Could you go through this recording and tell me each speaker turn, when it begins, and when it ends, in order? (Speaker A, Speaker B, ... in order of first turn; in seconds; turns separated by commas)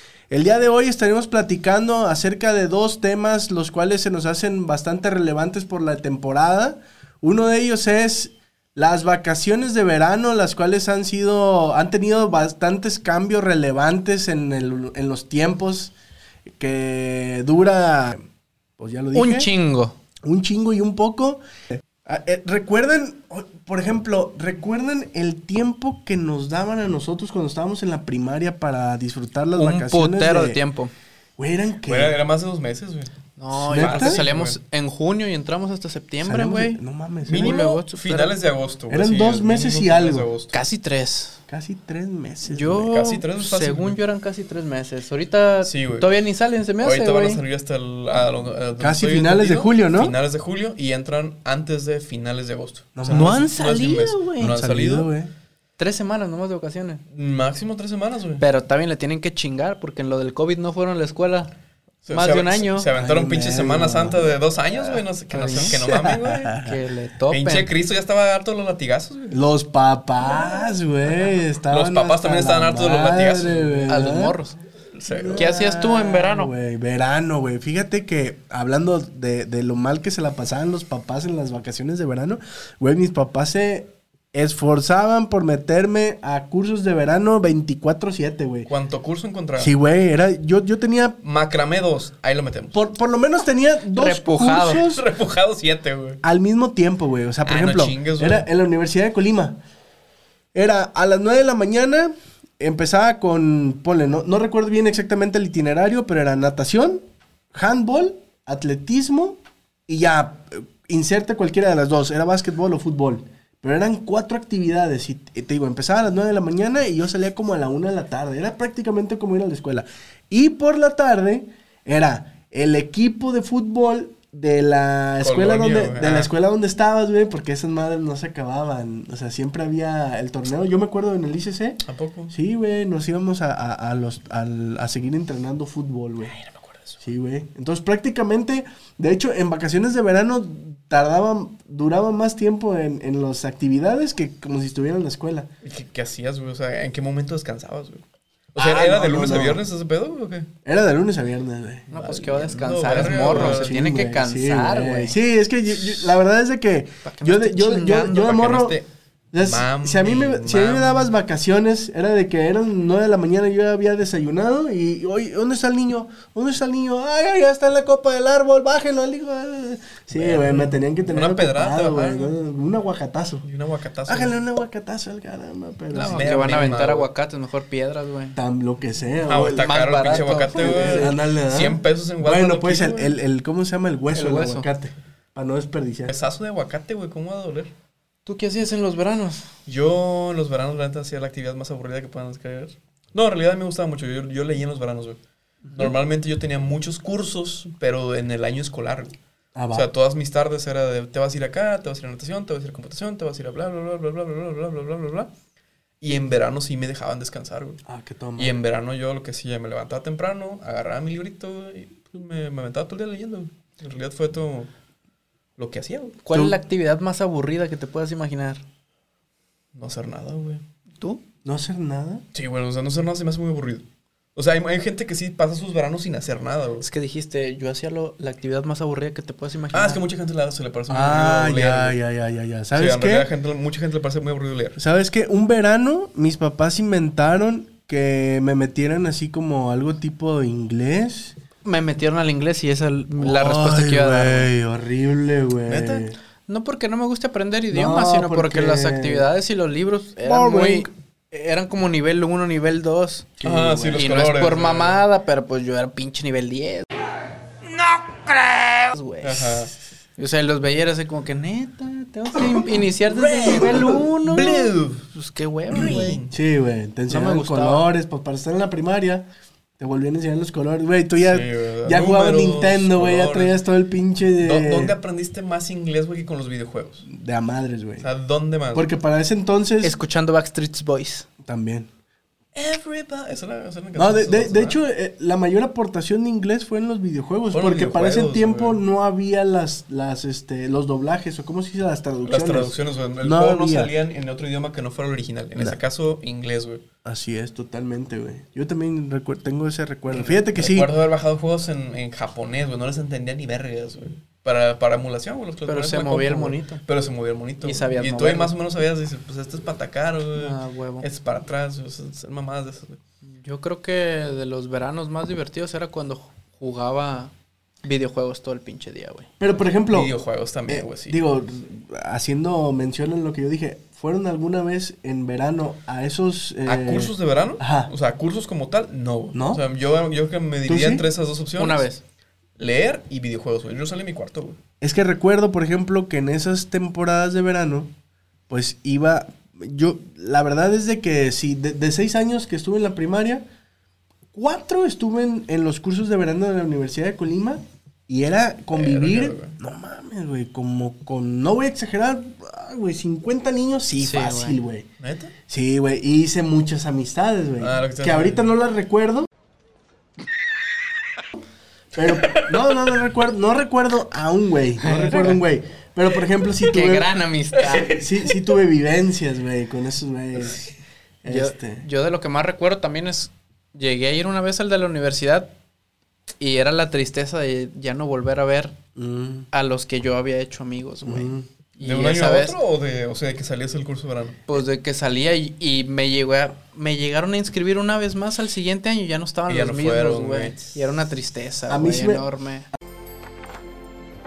Speaker A: 0.3-15.9, Speaker A: 16.6-18.2, Speaker A: 18.8-19.5, Speaker B: 19.1-20.0, Speaker A: 20.3-21.4, Speaker A: 22.0-30.6, Speaker B: 29.5-30.9, Speaker A: 31.4-32.2, Speaker C: 31.8-33.1, Speaker B: 33.4-38.4, Speaker A: 33.5-34.2, Speaker C: 33.7-34.6, Speaker A: 36.2-37.7, Speaker C: 37.3-40.6, Speaker A: 38.9-40.3, Speaker B: 40.5-41.4, Speaker A: 41.5-42.9, Speaker B: 42.5-47.4, Speaker C: 42.8-44.0, Speaker C: 45.6-46.2, Speaker C: 46.8-55.1, Speaker A: 48.8-50.1, Speaker A: 53.0-53.6, Speaker B: 53.1-54.4, Speaker A: 54.3-55.3, Speaker B: 55.8-57.0, Speaker C: 57.1-58.5, Speaker B: 58.4-61.5, Speaker C: 62.0-66.5, Speaker B: 62.1-62.9, Speaker A: 63.0-64.4, Speaker B: 65.3-65.8, Speaker A: 65.5-66.8, Speaker B: 66.5-67.7, Speaker C: 67.3-69.4, Speaker A: 69.3-74.4, Speaker C: 71.7-74.0, Speaker B: 73.9-74.6, Speaker C: 75.0-75.5, Speaker A: 75.1-88.7, Speaker B: 75.3-76.5, Speaker C: 88.7-89.7, Speaker A: 89.6-91.2, Speaker C: 91.2-92.8, Speaker A: 92.7-95.0, Speaker B: 93.9-94.8, Speaker C: 94.8-96.2, Speaker A: 96.2-99.6, Speaker C: 97.5-98.5, Speaker A: 100.5-107.0, Speaker A: 107.5-136.3, Speaker C: 125.2-126.3, Speaker C: 131.9-132.3, Speaker C: 136.2-137.0, Speaker A: 137.0-145.5, Speaker C: 145.6-148.0, Speaker C: 148.5-150.5, Speaker A: 148.6-149.6, Speaker A: 150.7-151.9, Speaker B: 151.9-155.2, Speaker C: 151.9-153.8, Speaker A: 152.9-158.8, Speaker B: 157.1-158.3, Speaker C: 158.2-161.1, Speaker A: 159.3-173.5, Speaker C: 170.1-172.3, Speaker C: 173.4-174.4, Speaker A: 174.1-176.7, Speaker C: 175.9-177.1, Speaker B: 175.9-178.4, Speaker A: 178.3-179.8, Speaker C: 179.2-183.1, Speaker B: 179.6-181.2, Speaker A: 180.6-186.1, Speaker B: 184.1-184.7, Speaker C: 186.1-187.7, Speaker B: 188.3-189.5, Speaker C: 189.7-195.2, Speaker A: 195.7-195.9, Speaker C: 195.7-199.2, Speaker A: 199.6-199.9, Speaker C: 199.7-205.3, Speaker C: 206.0-207.8, Speaker A: 207.9-208.6, Speaker C: 208.4-214.7, Speaker C: 215.6-216.2, Speaker B: 216.2-218.6, Speaker C: 219.8-220.6, Speaker A: 221.4-222.2, Speaker C: 222.3-223.8, Speaker C: 224.4-226.9, Speaker B: 226.8-230.0, Speaker C: 229.7-232.0, Speaker A: 230.9-233.3, Speaker C: 232.8-234.8, Speaker A: 234.8-241.4, Speaker B: 241.6-244.5, Speaker A: 243.2-246.2, Speaker C: 245.7-246.1, Speaker B: 246.5-253.3, Speaker A: 247.7-249.3, Speaker A: 250.2-250.9, Speaker A: 253.4-254.1, Speaker C: 253.4-255.0, Speaker B: 253.9-256.9, Speaker B: 258.3-266.2, Speaker C: 259.2-259.7, Speaker C: 263.1-265.0, Speaker C: 265.7-266.4, Speaker A: 265.7-269.3, Speaker B: 267.1-267.9, Speaker A: 269.8-274.9, Speaker C: 271.2-273.6, Speaker C: 274.4-277.1, Speaker A: 277.1-278.1, Speaker C: 278.0-278.9, Speaker A: 278.7-279.9, Speaker B: 279.8-281.3, Speaker A: 281.4-281.9, Speaker C: 282.6-284.8, Speaker A: 284.0-293.9, Speaker C: 287.5-288.8, Speaker C: 292.2-296.8, Speaker A: 297.1-300.9, Speaker C: 300.1-313.0, Speaker B: 305.7-306.8, Speaker B: 307.6-308.6, Speaker B: 310.4-311.1, Speaker B: 313.4-317.3, Speaker B: 317.8-319.3, Speaker A: 319.4-320.1, Speaker C: 319.9-321.2, Speaker A: 320.7-327.9, Speaker C: 326.7-331.9, Speaker A: 329.3-329.6, Speaker A: 330.6-331.1, Speaker B: 331.6-332.0, Speaker C: 332.6-334.6, Speaker A: 334.8-337.9, Speaker A: 338.5-343.4, Speaker A: 344.3-354.9, Speaker C: 348.7-349.6, Speaker B: 354.0-354.6, Speaker C: 355.0-355.3, Speaker A: 355.5-359.3, Speaker C: 357.6-358.5, Speaker A: 361.9-367.1, Speaker C: 362.0-362.7, Speaker B: 364.8-365.4, Speaker B: 366.6-367.9, Speaker C: 367.6-367.9, Speaker A: 367.7-370.7, Speaker A: 371.2-371.9, Speaker B: 371.3-375.5, Speaker B: 376.4-378.8, Speaker A: 379.0-379.5, Speaker B: 379.5-382.6, Speaker A: 381.0-381.5, Speaker C: 381.8-384.6, Speaker B: 384.5-392.7, Speaker C: 389.5-390.8, Speaker A: 391.7-392.3